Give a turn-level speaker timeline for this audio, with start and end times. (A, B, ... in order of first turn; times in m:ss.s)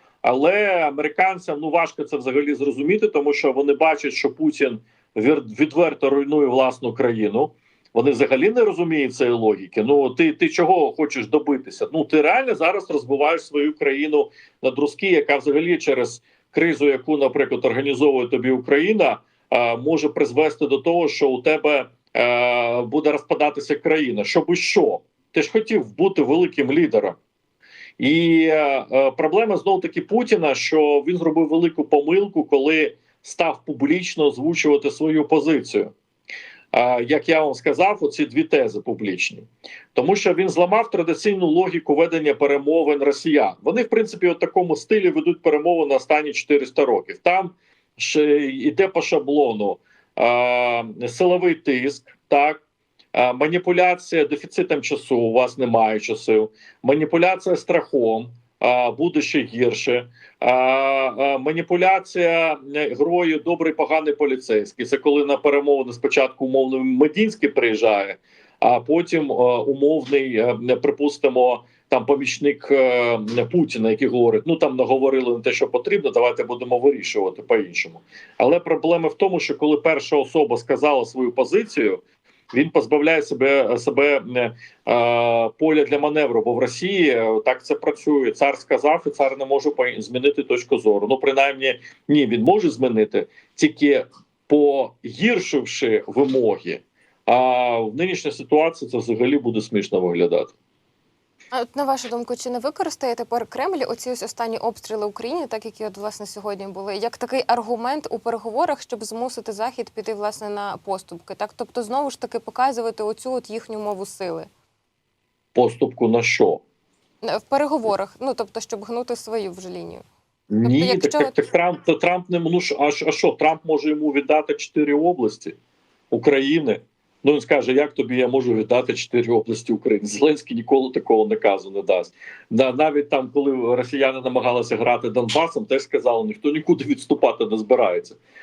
0:00.2-0:27.2 A
0:28.0-0:35.9 A
0:36.7-0:52.6 A
0:53.1-1:40.5 A
1:41.5-1:54.5 B
1:55.6-1:56.6 A
1:57.2-2:00.0 B
2:00.5-2:05.6 A
2:00.6-2:01.5 B
2:06.1-2:18.2 A